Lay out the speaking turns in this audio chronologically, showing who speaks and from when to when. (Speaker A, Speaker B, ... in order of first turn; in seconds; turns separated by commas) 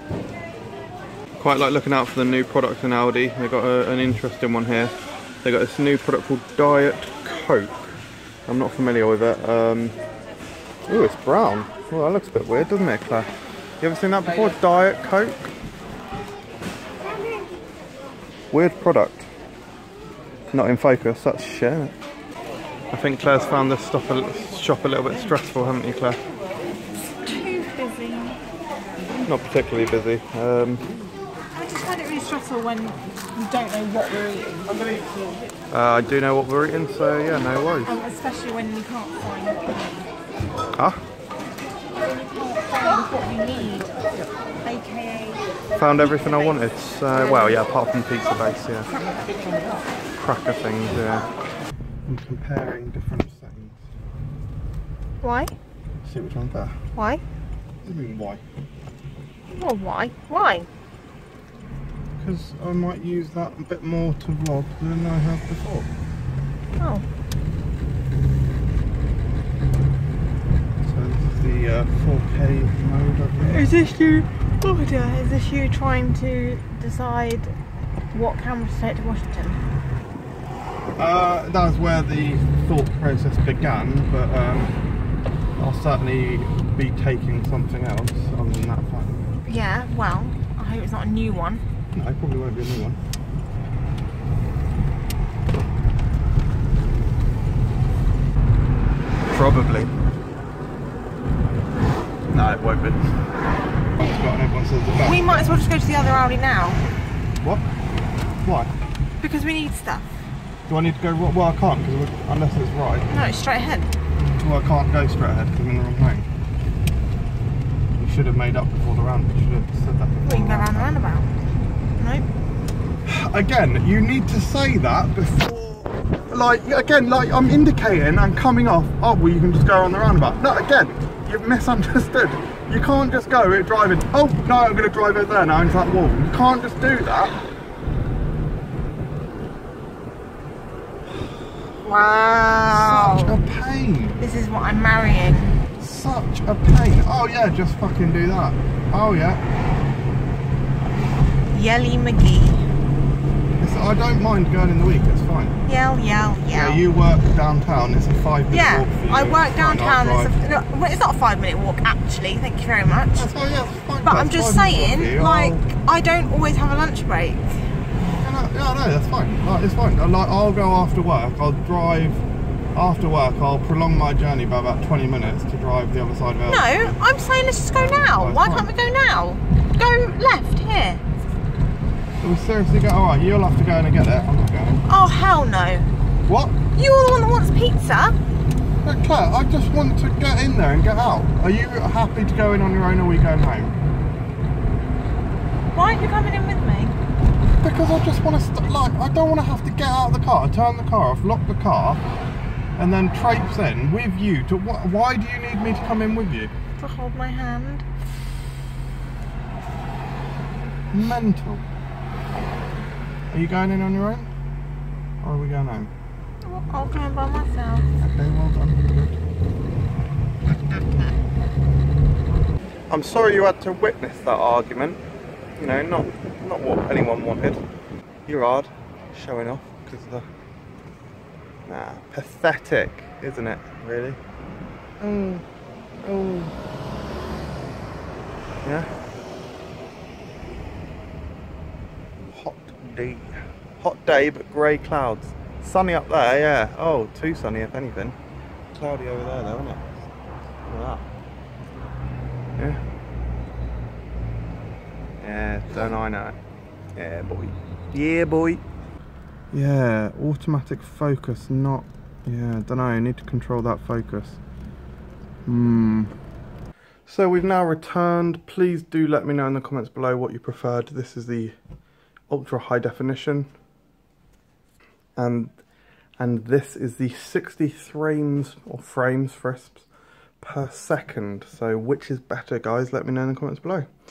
Speaker A: 1.4-10.0, Speaker A: 10.9-13.3, Speaker A: 13.8-15.5, Speaker B: 17.0-17.5, Speaker A: 18.5-19.3, Speaker A: 20.5-21.9, Speaker A: 22.9-26.2, Speaker B: 27.2-28.4, Speaker A: 29.2-30.9, Speaker B: 31.5-35.0, Speaker A: 35.7-38.0, Speaker B: 37.8-40.1, Speaker A: 40.7-41.0, Speaker B: 42.0-43.9, Speaker B: 44.6-45.4, Speaker A: 45.8-48.9, Speaker B: 46.0-46.5, Speaker B: 48.9-49.9, Speaker A: 50.2-51.3, Speaker A: 52.0-53.8, Speaker B: 55.2-55.5, Speaker A: 56.0-56.8, Speaker B: 56.9-57.2, Speaker A: 57.8-58.4, Speaker B: 59.5-60.7, Speaker A: 62.2-65.9, Speaker B: 66.8-67.0, Speaker A: 70.8-73.7, Speaker B: 73.4-77.5, Speaker B: 78.1-79.6, Speaker A: 81.0-84.7, Speaker A: 85.6-89.3, Speaker B: 89.4-91.6, Speaker A: 91.9-93.0, Speaker A: 99.3-99.9, Speaker A: 102.3-103.2, Speaker A: 104.0-105.7, Speaker B: 105.0-106.8, Speaker A: 108.4-108.7, Speaker B: 109.2-110.1, Speaker A: 110.7-113.1, Speaker B: 113.1-113.9, Speaker A: 114.2-116.3, Speaker A: 118.0-121.0, Speaker B: 120.2-121.4, Speaker B: 122.0-122.3, Speaker A: 123.0-137.3, Speaker B: 141.8-143.3, Speaker A: 142.7-144.2, Speaker B: 144.2-145.6, Speaker A: 145.8-149.4, Speaker B: 151.5-152.6, Speaker A: 153.6-155.6, Speaker B: 155.6-156.8, Speaker A: 156.5-160.3, Speaker B: 158.5-163.3, Speaker A: 163.1-165.6, Speaker B: 164.0-167.7, Speaker A: 168.2-177.0, Speaker B: 176.5-181.0, Speaker A: 177.7-178.7, Speaker A: 182.2-184.8, Speaker B: 184.8-185.9, Speaker A: 186.2-186.6, Speaker B: 186.7-188.2, Speaker A: 188.8-193.8, Speaker B: 195.7-197.0, Speaker A: 197.6-202.0, Speaker A: 202.8-206.5, Speaker B: 206.8-207.9, Speaker A: 210.9-211.6, Speaker A: 213.3-214.3, Speaker A: 215.2-215.9, Speaker B: 216.4-217.9, Speaker A: 218.0-219.2, Speaker B: 220.7-221.1, Speaker A: 222.9-225.0, Speaker A: 225.6-227.6, Speaker A: 228.3-230.2, Speaker A: 231.7-234.2, Speaker A: 235.0-235.4, Speaker A: 236.0-236.5, Speaker A: 242.3-248.2, Speaker A: 248.7-250.0, Speaker A: 250.7-251.1, Speaker A: 255.2-256.4, Speaker A: 256.9-258.6, Speaker A: 259.5-264.4, Speaker A: 265.4-266.1, Speaker A: 267.1-271.6, Speaker A: 272.3-273.5, Speaker A: 275.1-275.5, Speaker A: 276.2-279.8, Speaker A: 280.4-283.9